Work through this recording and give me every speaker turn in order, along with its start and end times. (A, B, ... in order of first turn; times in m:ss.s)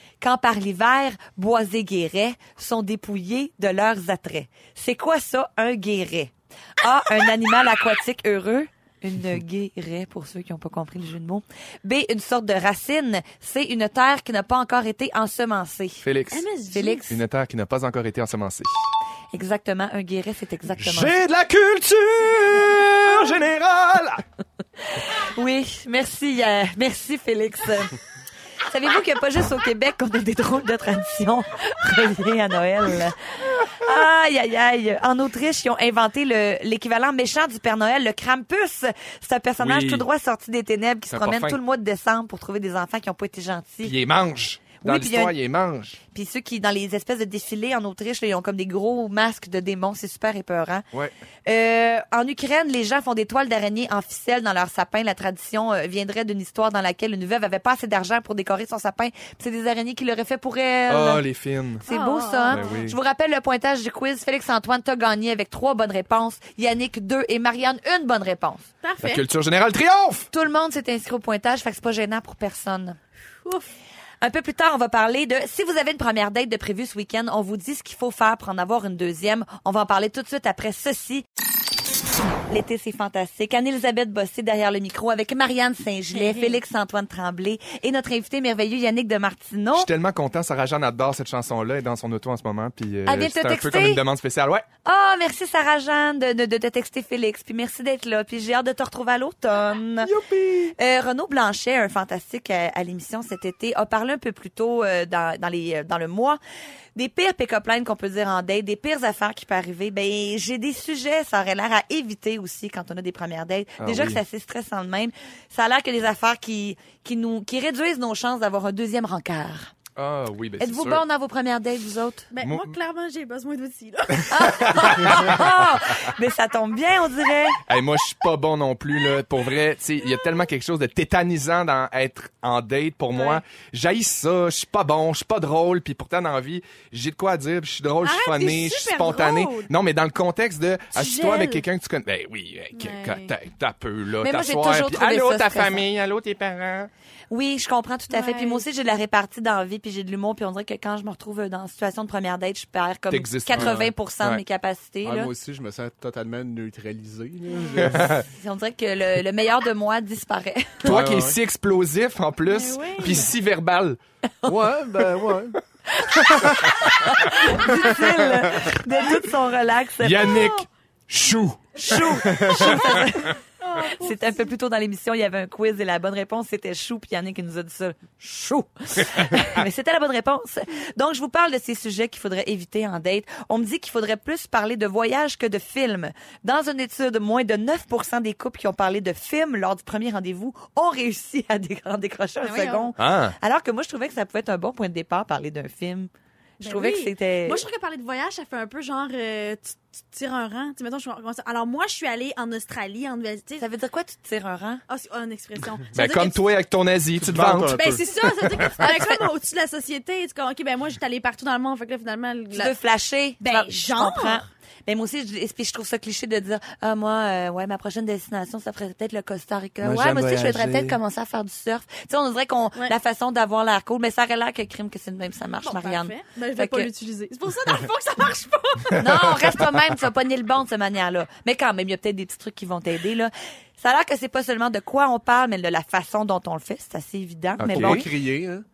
0:00.2-0:16.0 A
0:16.0-0:16.5 B
0:16.3-0:17.1 C
0:16.7-0:17.1 A
0:17.1-0:18.7 B
0:19.3-0:21.2 A
0:20.8-0:24.2 B
0:25.0-0:28.0 A
0:28.7-0:44.0 A
0:39.6-0:40.1 B
0:41.1-0:41.6 B
0:43.8-0:46.0 B
0:44.8-0:45.4 A
0:46.1-0:50.8 A
0:51.5-1:01.2 A
1:00.9-1:01.8 B
1:01.8-1:02.8 C
1:01.8-1:08.7 A
1:02.5-1:03.0 B
1:08.8-1:09.2 C
1:09.0-1:10.3 B
1:10.3-1:13.0 A
1:14.2-1:21.2 A
1:22.5-1:29.9 A
1:26.1-1:26.6 C
1:29.8-1:34.7 B
1:33.1-1:34.0 A
1:34.8-1:40.1 A
1:40.2-1:40.7 B
1:40.8-1:46.4 A
1:47.0-1:59.7 A
1:53.8-1:54.2 B
2:00.0-2:01.0 B
2:00.6-2:02.3 A
2:02.3-2:05.1 C
2:02.4-2:02.7 B
2:04.3-2:07.6 A
2:04.4-2:05.6 B
2:07.7-2:26.9 B
2:13.1-2:13.4 C
2:18.0-2:19.7 C
2:21.0-2:21.6 C
2:22.7-2:23.3 C
2:24.2-2:25.8 A
2:27.3-2:35.3 A
2:28.1-2:28.6 C
2:33.1-2:34.4 B
2:33.5-2:33.9 D
2:35.0-2:38.2 D
2:37.8-2:38.2 B
2:38.2-2:40.9 A
2:40.8-2:41.4 D
2:40.8-2:44.0 B
2:42.5-2:43.3 C
2:44.4-2:45.6 D
2:46.0-2:50.4 A
2:46.4-2:46.7 B
2:50.0-2:52.8 B
2:51.8-3:17.6 A
2:52.7-2:53.1 C
2:53.6-2:54.5 C
3:12.4-3:12.9 C
3:13.0-3:13.4 B
3:16.6-3:23.6 C
3:23.6-3:24.8 A
3:24.9-3:25.9 C
3:25.9-3:26.4 A
3:25.9-3:28.8 B
3:27.2-3:28.1 D
3:27.7-3:32.7 C
3:28.8-3:29.2 A
3:32.5-3:46.9 A
3:33.4-3:34.4 C
3:39.8-3:41.0 B
3:45.6-3:49.4 C
3:49.0-3:58.1 A
3:57.6-3:58.1 B
3:57.6-3:58.6 D